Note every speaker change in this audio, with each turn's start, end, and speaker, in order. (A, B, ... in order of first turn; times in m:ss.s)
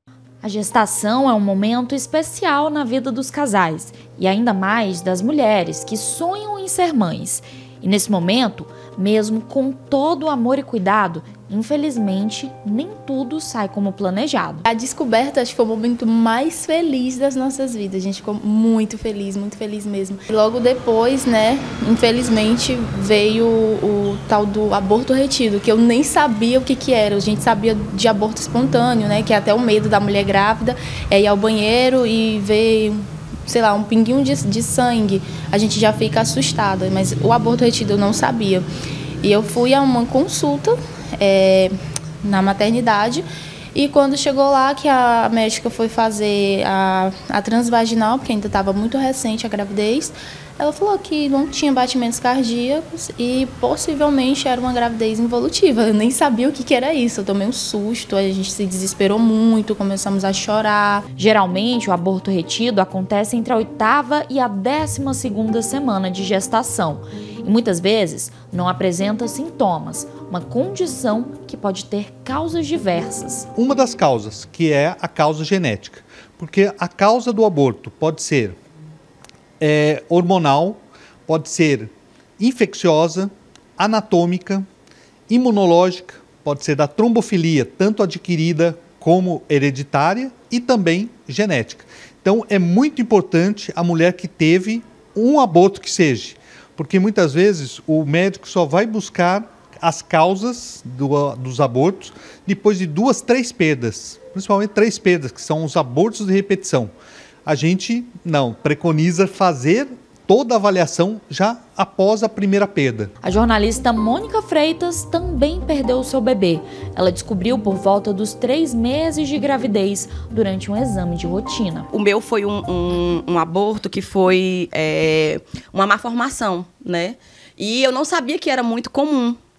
0:00.4-0:14.7 A
0:14.7-0:38.6 B
0:39.2-1:01.0 B
1:01.2-1:13.5 A
1:13.5-1:18.6 C
1:19.6-1:24.7 C
1:25.3-1:46.9 C
1:47.4-1:53.1 C
1:53.2-2:01.9 A
2:01.9-2:09.4 D